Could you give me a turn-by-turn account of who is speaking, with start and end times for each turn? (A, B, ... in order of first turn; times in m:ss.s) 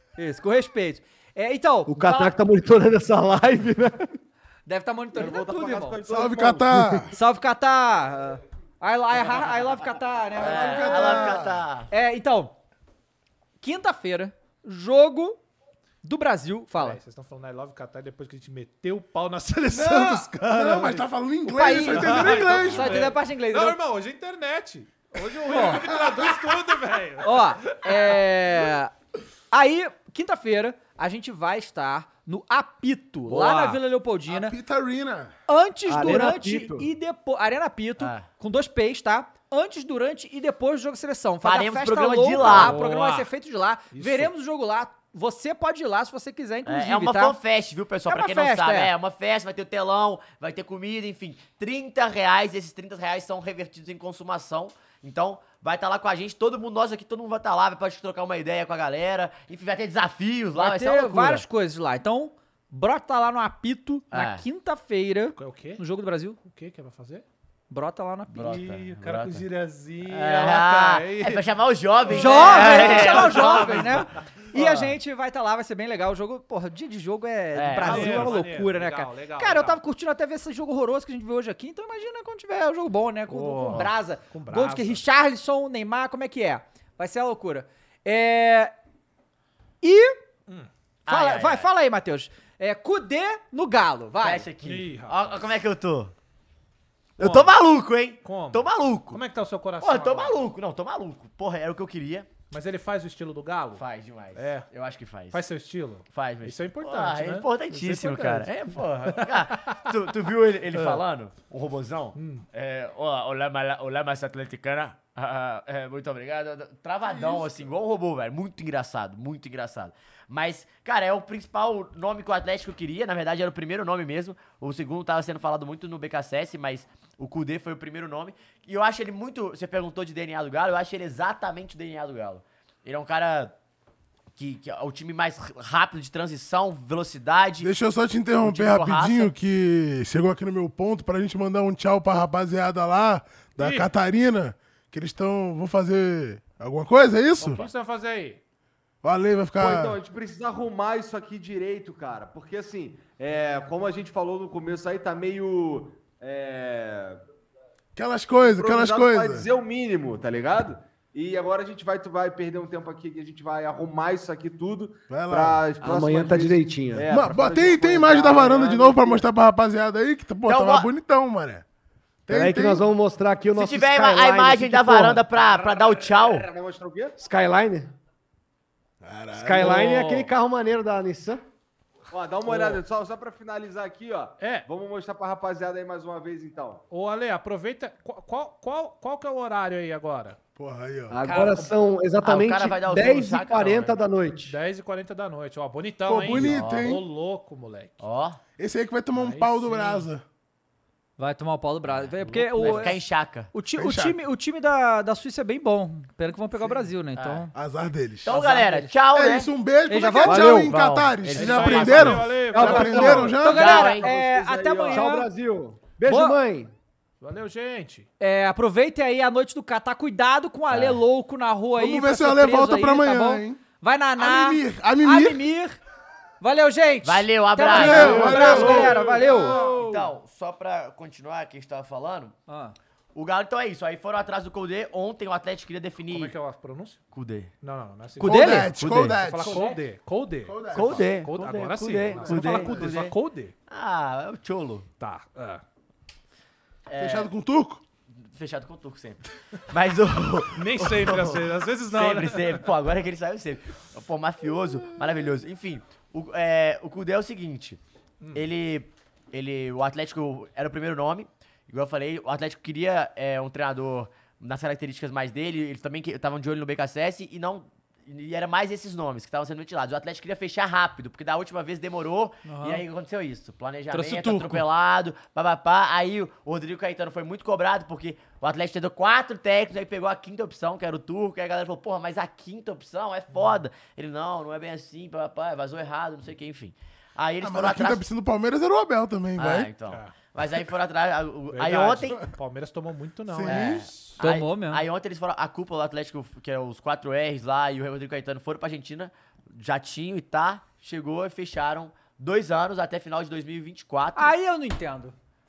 0:00.2-0:02.3 A
0:01.9-0:04.1 B
0:04.7-0:06.0 A
0:05.2-0:06.7 C
0:06.1-0:07.2 D
0:06.7-0:07.0 B
0:07.1-0:11.3 A
0:10.4-0:11.9 E
0:10.4-0:11.6 D
0:11.9-0:12.5 A
0:13.6-0:15.4 A
0:16.0-0:17.0 A
0:16.8-0:21.0 F
0:19.7-0:23.1 D
0:21.4-0:23.8 A
0:21.7-0:28.2 F
0:25.5-0:25.8 A
0:25.5-0:26.6 D
0:27.2-0:28.9 A
0:29.5-0:34.6 A
0:33.3-0:33.8 F
0:34.3-0:35.3 D
0:35.5-0:47.4 A
0:35.9-0:36.9 B
0:38.0-0:38.2 E
0:41.4-0:42.8 E
0:42.4-0:43.3 F
0:43.9-0:44.3 F
0:46.6-1:01.4 E
0:48.1-0:48.9 A
1:00.6-1:06.4 A
1:04.1-1:04.4 E
1:05.4-1:05.8 F
1:06.4-1:07.3 F
1:07.7-1:08.6 A
1:08.3-1:09.5 E
1:08.4-1:11.5 F
1:10.0-1:14.9 E
1:12.0-1:14.6 F
1:12.1-1:28.7 A
1:17.5-1:18.4 E
1:17.8-1:19.8 F
1:23.3-1:25.0 F
1:29.8-1:30.2 A
1:31.1-1:31.7 E
1:31.1-1:34.5 A
1:34.2-1:36.1 E
1:34.6-1:35.4 F
1:37.2-1:39.2 E
1:37.2-1:37.6 F
1:38.2-1:40.5 F
1:39.8-1:42.3 E
1:42.5-1:44.7 F
1:43.8-1:45.4 E
1:45.3-1:49.8 F
1:46.1-2:13.5 E
1:50.7-1:51.0 F
1:52.2-1:52.4 F
2:14.4-2:17.7 E
2:17.6-2:27.7 D
2:18.4-2:19.3 E
2:23.6-2:23.9 F
2:27.4-2:28.4 F
2:29.0-2:30.0 D
2:29.6-2:37.2 C
2:38.0-2:39.5 D
2:38.4-2:49.3 C
2:45.1-2:45.7 D
2:45.8-2:47.1 B
2:47.0-2:51.6 D
2:50.5-2:50.9 E
2:52.3-2:52.8 D
2:52.3-2:55.2 B
2:53.6-2:56.5 E
2:55.4-2:57.2 C
2:57.2-2:57.9 B
2:59.0-3:00.0 D
2:59.3-3:01.4 B
3:02.1-3:06.8 C
3:04.4-3:04.7 F
3:06.9-3:10.4 F
3:10.6-3:11.2 D
3:11.1-3:14.6 B
3:11.2-3:11.7 A
3:12.2-3:14.0 E
3:14.5-3:18.0 F
3:16.0-3:17.1 D
3:16.3-3:17.0 E
3:18.0-3:18.4 E
3:18.6-3:20.2 D
3:19.1-3:20.1 F
3:21.2-3:23.0 A
3:22.2-3:23.0 F
3:22.3-3:23.5 E
3:23.5-3:27.5 A
3:23.8-3:24.2 D
3:27.2-3:27.5 E
3:27.5-3:28.4 D
3:28.2-3:29.5 E
3:28.3-3:28.9 A
3:29.1-3:33.8 D
3:29.9-3:30.6 A
3:30.3-3:30.7 B
3:30.4-3:34.1 E
3:31.3-3:33.4 F
3:32.5-3:33.3 B
3:32.7-3:35.3 A
3:33.6-3:35.1 C
3:34.9-3:36.7 B
3:36.1-3:36.4 A
3:37.2-3:38.1 F
3:38.2-3:45.8 A
3:40.7-3:41.0 E
3:41.8-3:43.6 D
3:44.2-3:45.4 D
3:46.4-3:49.6 A
3:47.0-3:52.3 E
3:47.7-3:49.2 D
3:47.7-3:50.1 F
3:52.5-3:52.8 A
3:53.1-3:56.3 E
3:56.1-3:57.0 F
3:57.1-3:57.5 E
3:57.6-4:03.5 F
3:58.2-3:59.7 D
3:58.2-3:59.8 A
4:00.4-4:01.2 D
4:00.7-4:03.2 E
4:02.1-4:02.9 D
4:03.7-4:04.9 E
4:05.0-4:05.6 F
4:06.9-4:07.3 E
4:07.0-4:07.8 D
4:08.2-4:17.8 E
4:10.5-4:12.6 F
4:18.3-4:48.0 E
4:32.4-4:32.8 A
4:33.9-4:34.6 A
4:47.4-4:49.7 D
4:49.4-4:52.2 E
4:49.9-4:50.1 F
4:51.5-4:54.2 F
4:53.3-4:53.9 D
4:53.5-5:04.3 E
4:54.2-4:54.8 A
5:04.2-5:05.2 A